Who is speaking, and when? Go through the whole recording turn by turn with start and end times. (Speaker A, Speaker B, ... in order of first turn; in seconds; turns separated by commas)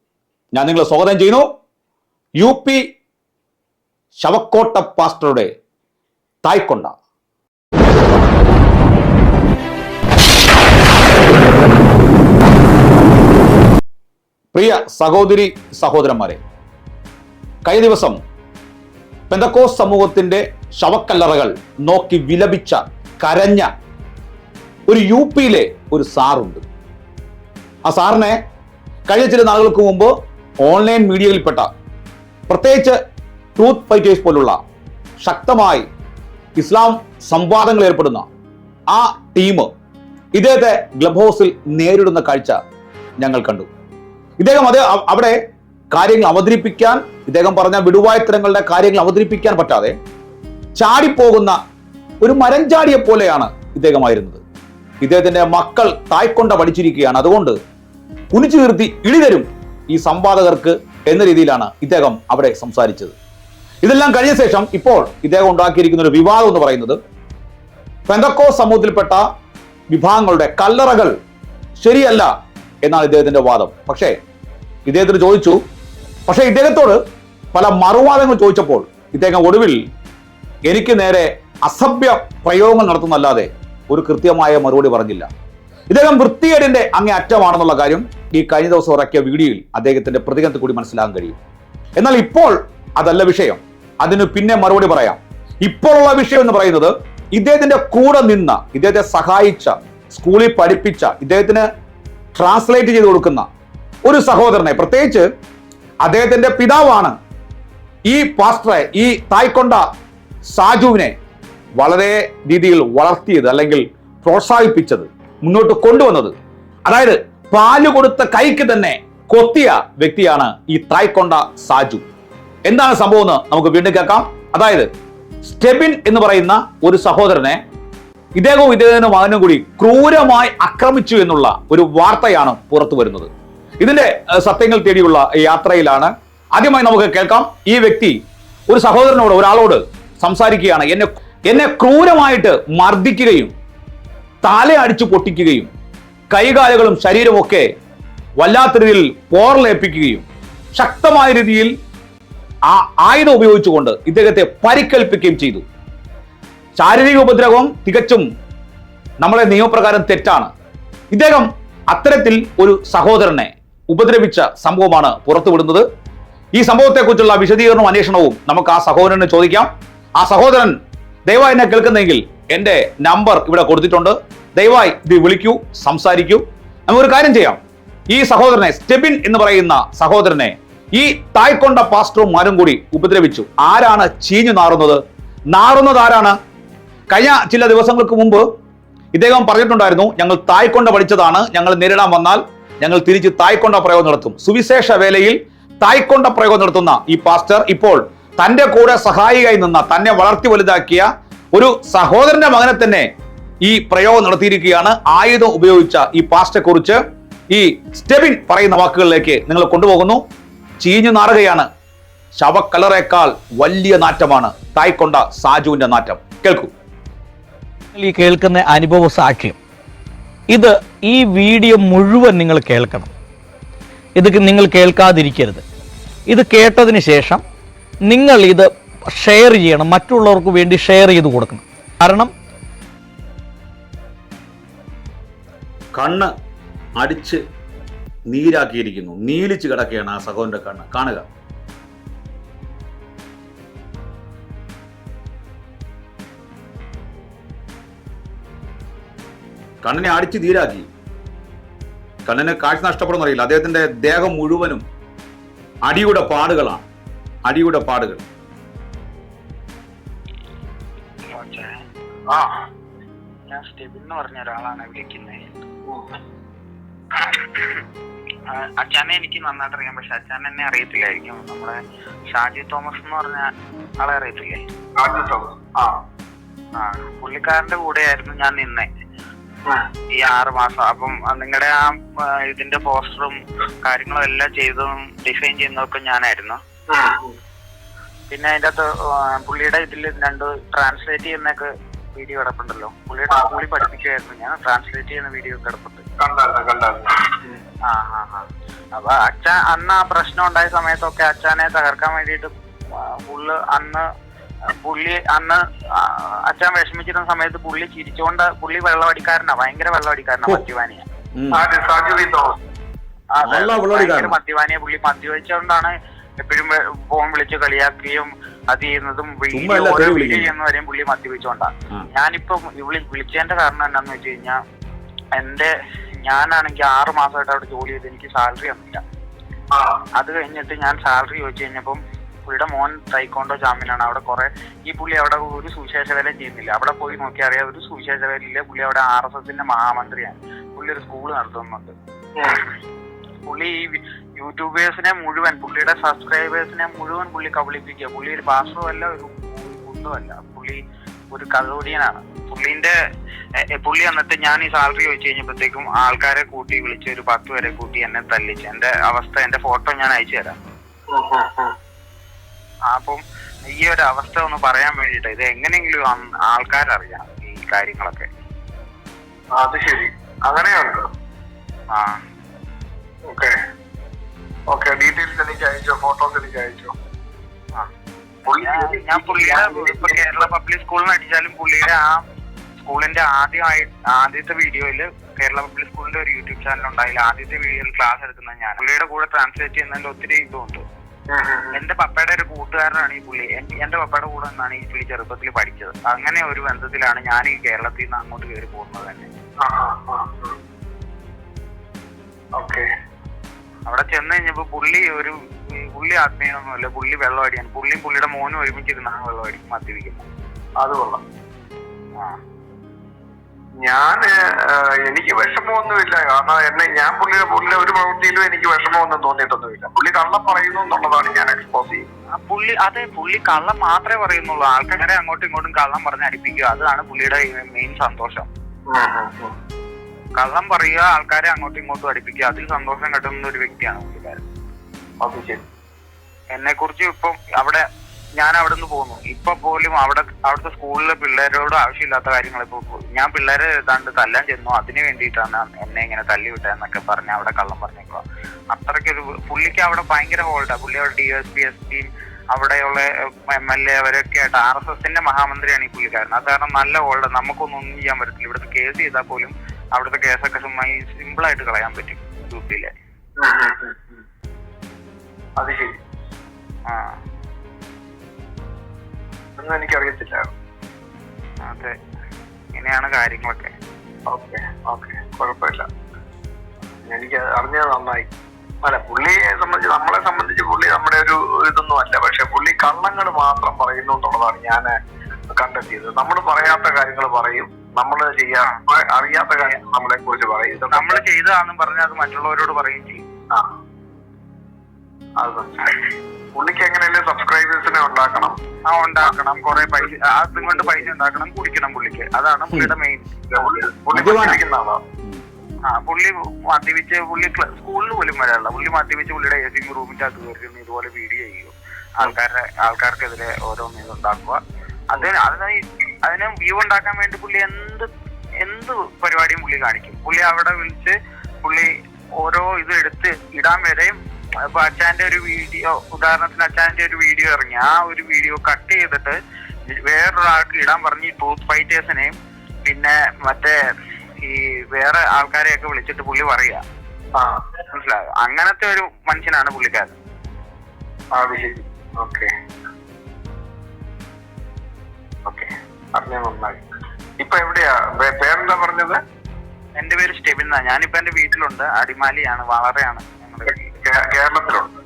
Speaker A: 0.6-1.5, Speaker A: 2.4-2.8, Speaker A: 4.2-5.5, Speaker A: 6.5-7.0, Speaker A: 14.5-16.4, Speaker A: 17.7-18.2, Speaker A: 19.3-23.7, Speaker A: 24.9-26.7, Speaker A: 27.9-28.4, Speaker A: 29.1-30.1, Speaker A: 30.6-31.7, Speaker A: 32.5-33.0, Speaker A: 33.6-34.6, Speaker A: 35.2-35.9, Speaker A: 36.6-38.3, Speaker A: 38.9-39.7, Speaker A: 40.4-42.6, Speaker A: 43.2-43.7, Speaker A: 44.4-45.4, Speaker A: 45.9-50.0, Speaker A: 50.8-51.6, Speaker A: 52.2-54.4, Speaker A: 55.0-57.6, Speaker A: 58.3-63.2, Speaker A: 63.8-67.0, Speaker A: 68.1-69.3, Speaker A: 69.9-71.2, Speaker A: 71.8-72.3, Speaker A: 72.8-74.2, Speaker A: 74.9-75.6, Speaker A: 76.3-77.0, Speaker A: 77.5-79.8, Speaker A: 80.7-85.3, Speaker A: 85.9-91.4, Speaker A: 92.0-101.7, Speaker A: 102.3-103.5, Speaker A: 104.1-105.3, Speaker A: 106.0-107.2, Speaker A: 108.1-109.8, Speaker A: 110.5-111.2, Speaker A: 111.8-116.3, Speaker A: 116.9-122.0, Speaker A: 122.7-124.9, Speaker A: 125.4-127.6, Speaker A: 128.4-133.3, Speaker A: 133.8-143.5, Speaker A: 144.4-145.7, Speaker A: 146.3-147.7, Speaker A: 148.4-151.7, Speaker A: 152.7-155.6, Speaker A: 156.8-158.3, Speaker A: 159.2-160.5, Speaker A: 161.1-165.9, Speaker A: 166.6-170.8, Speaker A: 171.3-177.6, Speaker A: 178.1-185.0, Speaker A: 185.5-186.4, Speaker A: 187.1-188.5, Speaker A: 189.1-203.1, Speaker A: 203.7-210.2, Speaker A: 210.8-211.7, Speaker A: 212.3-216.7, Speaker B: 217.9-219.6, Speaker B: 220.5-223.1, Speaker B: 224.2-225.6, Speaker B: 226.3-227.4, Speaker B: 228.1-232.3, Speaker A: 236.0-236.3, Speaker A: 237.0-237.4, Speaker A: 238.3-241.3, Speaker A: 249.8-250.9, Speaker A: 252.3-254.8, Speaker A: 255.8-256.9, Speaker A: 257.5-258.2, Speaker C: 261.3-261.8, Speaker D: 262.3-262.5, Speaker C: 263.5-265.6, Speaker C: 267.1-267.8, Speaker C: 268.5-271.8, Speaker C: 272.3-274.6, Speaker D: 275.0-276.0, Speaker C: 276.8-278.9, Speaker C: 280.2-286.6, Speaker D: 286.9-287.4, Speaker C: 288.3-296.0, Speaker D: 296.2-297.6, Speaker C: 297.9-304.0, Speaker C: 304.7-311.1, Speaker A: 311.4-311.6, Speaker D: 311.5-312.6, Speaker C: 313.4-324.6, Speaker A: 313.4-314.4, Speaker A: 319.5-320.5, Speaker C: 325.4-325.7, Speaker C: 326.2-329.0, Speaker D: 329.7-330.0, Speaker C: 330.2-341.9, Speaker D: 342.4-342.6, Speaker C: 343.5-350.8, Speaker C: 351.3-352.9, Speaker C: 353.8-360.6, Speaker D: 361.1-361.7, Speaker C: 362.9-368.3, Speaker D: 369.6-371.1, Speaker C: 371.9-372.2, Speaker D: 373.3-373.6, Speaker D: 374.7-376.9, Speaker D: 378.5-380.5, Speaker C: 378.6-382.2, Speaker C: 382.8-390.8, Speaker D: 391.3-391.8, Speaker C: 391.7-399.3, Speaker D: 399.6-400.6, Speaker D: 402.6-402.9, Speaker C: 403.9-410.3, Speaker D: 410.8-411.2, Speaker D: 413.8-422.1, Speaker C: 422.4-428.5, Speaker D: 428.9-429.5, Speaker C: 430.4-434.4, Speaker D: 435.2-435.6, Speaker C: 436.5-437.8, Speaker C: 438.4-462.9, Speaker D: 463.4-464.2, Speaker D: 465.6-466.0, Speaker C: 466.9-467.2, Speaker D: 469.6-470.5, Speaker C: 471.6-471.9, Speaker C: 472.7-473.7, Speaker D: 474.3-475.9, Speaker D: 477.0-478.3, Speaker D: 478.8-484.9, Speaker D: 485.5-491.2, Speaker C: 490.9-493.2, Speaker D: 495.4-495.9, Speaker D: 496.6-498.6, Speaker C: 498.9-503.9, Speaker D: 500.1-501.1, Speaker D: 503.5-505.0, Speaker A: 504.1-504.6, Speaker C: 505.9-514.6, Speaker C: 515.1-518.1, Speaker C: 518.6-521.9, Speaker C: 522.4-524.1, Speaker C: 524.7-529.4, Speaker C: 529.9-532.3, Speaker C: 532.9-533.8, Speaker C: 534.4-536.8, Speaker C: 537.9-540.2, Speaker D: 541.3-542.5, Speaker D: 545.5-546.8, Speaker D: 547.4-549.2, Speaker C: 550.0-553.9, Speaker D: 553.7-554.9